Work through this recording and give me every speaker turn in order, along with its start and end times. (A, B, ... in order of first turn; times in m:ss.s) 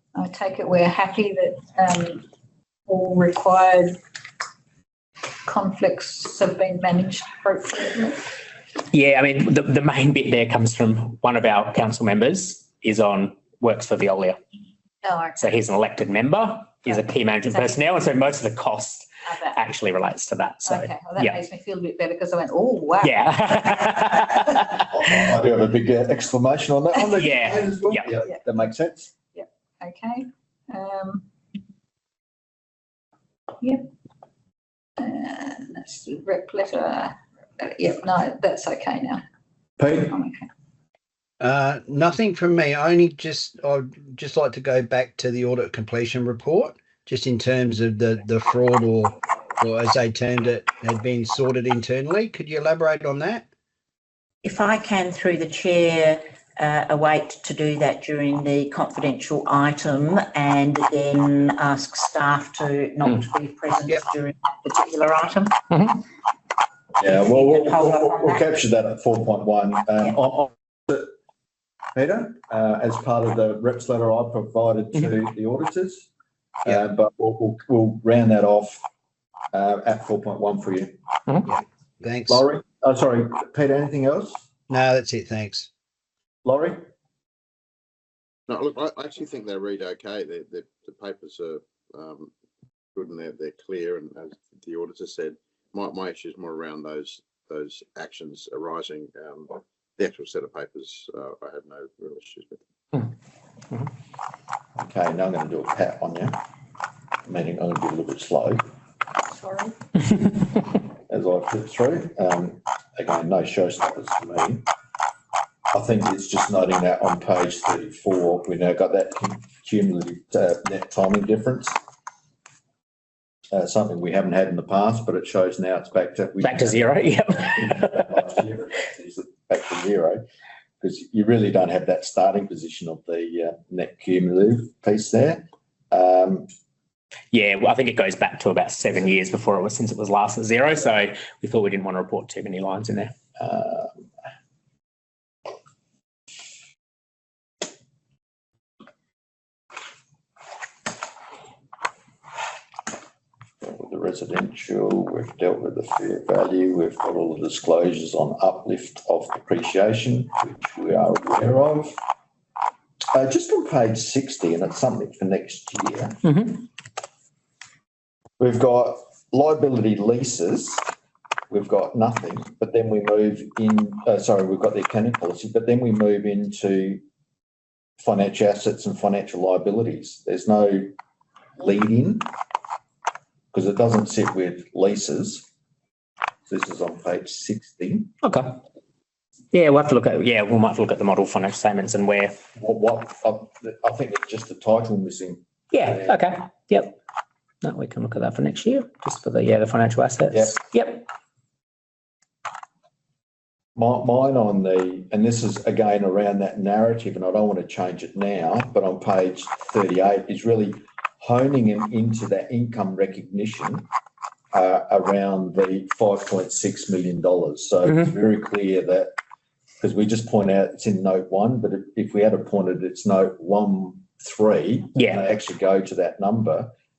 0:00.2-0:02.3 A
0:02.9-0:04.0 A
0:05.4-0:08.3 A
0:08.9-0:14.4 B
0:15.0-0:15.6 A
0:15.4-0:21.4 B
0:17.5-0:17.8 A
0:19.3-0:19.6 A
0:20.7-0:24.4 A
0:23.0-0:25.2 B
0:24.9-0:29.1 C
0:27.2-0:28.0 B
0:29.3-0:31.2 A
0:35.0-0:39.2 A
0:39.8-0:40.2 C
0:40.0-0:40.5 A
0:41.4-0:53.5 D
0:54.4-1:05.6 E
1:05.7-1:06.0 B
1:07.0-1:11.1 C
1:07.1-1:08.4 E
1:12.0-1:16.1 C
1:16.6-1:18.8 C
1:19.5-1:20.9 C
1:21.5-1:22.4 D
1:22.3-1:24.5 C
1:24.7-1:25.7 D
1:26.4-1:26.8 C
1:28.5-1:32.3 F
1:33.0-1:43.0 F
1:44.8-1:46.4 C
1:47.3-1:48.6 C
1:49.3-1:49.8 A
1:51.1-1:54.6 C
1:55.7-2:01.8 C
2:03.5-2:10.2 C
2:06.4-2:08.2 B
2:10.8-2:16.5 C
2:17.3-2:23.1 B
2:23.4-2:24.0 C
2:33.6-2:42.0 C
2:43.1-2:46.3 C
2:46.2-2:46.6 B
2:48.4-2:50.9 C
2:51.5-2:57.0 C
2:58.0-3:00.9 C
3:01.6-3:02.3 C
3:03.5-3:05.5 C
3:06.5-3:08.1 C
3:08.2-3:08.6 B
3:09.5-3:12.4 B
3:12.6-3:16.3 C
3:15.7-3:17.0 B
3:17.6-3:21.1 B
3:20.3-3:20.6 C
3:23.8-3:33.9 C
3:34.5-3:39.1 C
3:39.8-3:46.7 C